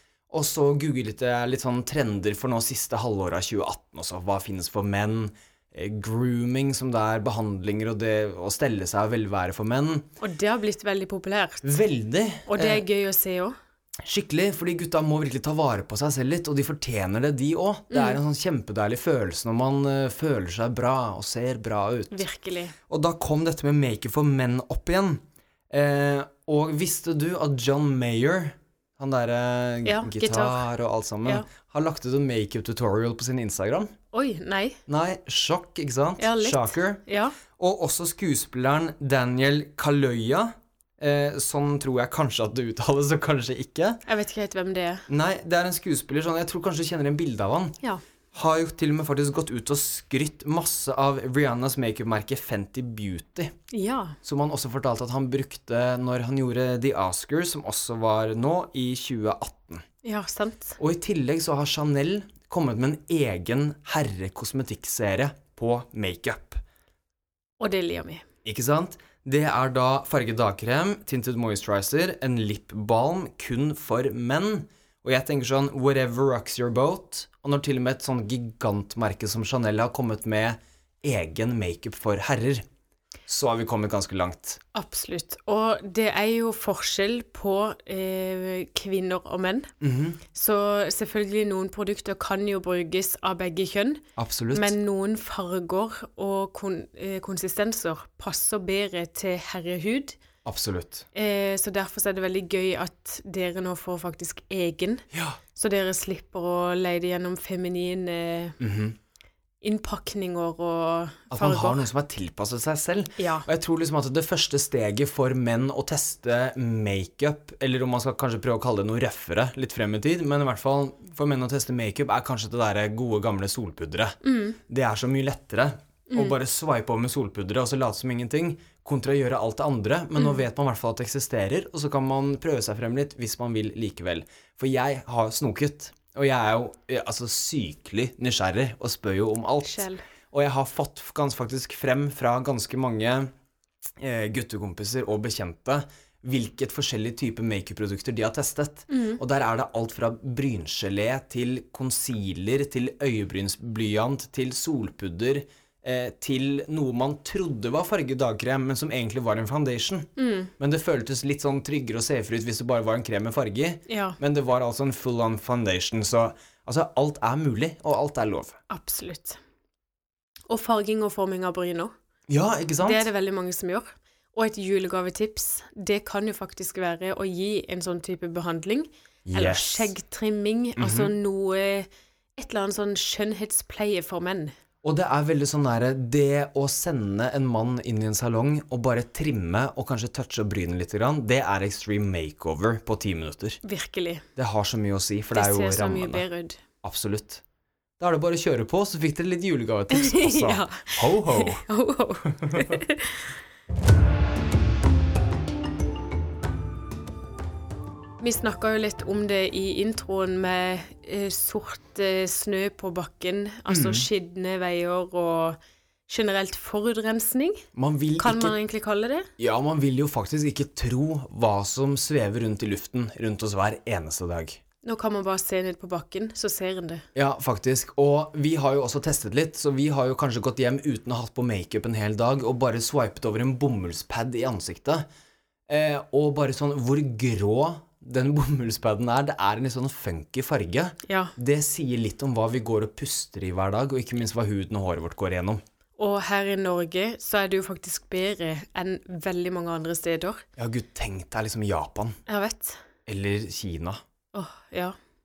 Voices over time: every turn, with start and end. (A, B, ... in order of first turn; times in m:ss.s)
0:00.3-0:10.1 A
0:10.2-0:11.7 B
0:11.6-0:12.8 A
0:12.4-0:13.5 B
0:14.0-0:22.2 A
0:17.9-0:18.2 B
0:22.1-0:22.7 B
0:22.9-0:33.9 A
0:29.8-0:30.6 B
0:34.1-0:34.8 B
0:34.9-0:37.0 A
0:36.2-0:37.4 B
0:37.6-0:44.0 A
0:44.1-0:45.1 B
0:45.1-0:47.8 A
0:48.3-0:53.5 A
0:53.7-0:54.2 B
0:54.2-0:59.8 A
1:00.0-1:00.8 B
1:00.8-1:06.6 A
1:07.6-1:08.2 B
1:08.4-1:22.6 A
1:23.3-1:24.6 A
1:24.7-1:29.7 B
1:29.8-1:30.2 A
1:30.3-1:40.2 B
1:34.2-1:34.8 A
1:40.4-1:41.0 A
1:41.1-1:48.6 B
1:45.1-1:45.4 A
1:48.6-1:49.0 A
1:49.6-1:51.8 B
1:51.3-2:23.3 A
1:53.2-1:53.5 B
2:04.2-2:04.6 B
2:06.1-2:06.4 B
2:19.6-2:20.0 B
2:24.0-2:48.6 A
2:28.9-2:29.2 B
2:40.2-2:40.5 B
2:43.9-2:44.2 B
2:48.7-2:49.4 B
2:50.5-2:51.9 B
2:52.3-2:53.1 A
2:52.8-3:04.5 B
2:59.2-2:59.9 A
3:00.8-3:01.1 A
3:04.8-3:13.6 A
3:13.6-3:14.2 B
3:14.4-3:16.2 A
3:15.3-3:16.6 B
3:16.8-3:17.4 A
3:18.0-3:21.6 A
3:19.9-3:23.3 B
3:22.3-3:22.8 A
3:28.2-3:37.6 B
3:33.7-3:34.1 A
3:37.7-3:38.5 A
3:38.2-3:39.3 B
3:39.4-3:44.6 A
3:44.8-3:47.0 B
3:47.1-3:55.0 A
3:55.7-4:05.6 A
4:01.0-4:01.3 B
4:06.0-4:10.4 B
4:10.6-4:12.2 A
4:12.3-4:12.8 B
4:13.1-4:14.0 A
4:14.3-4:15.0 B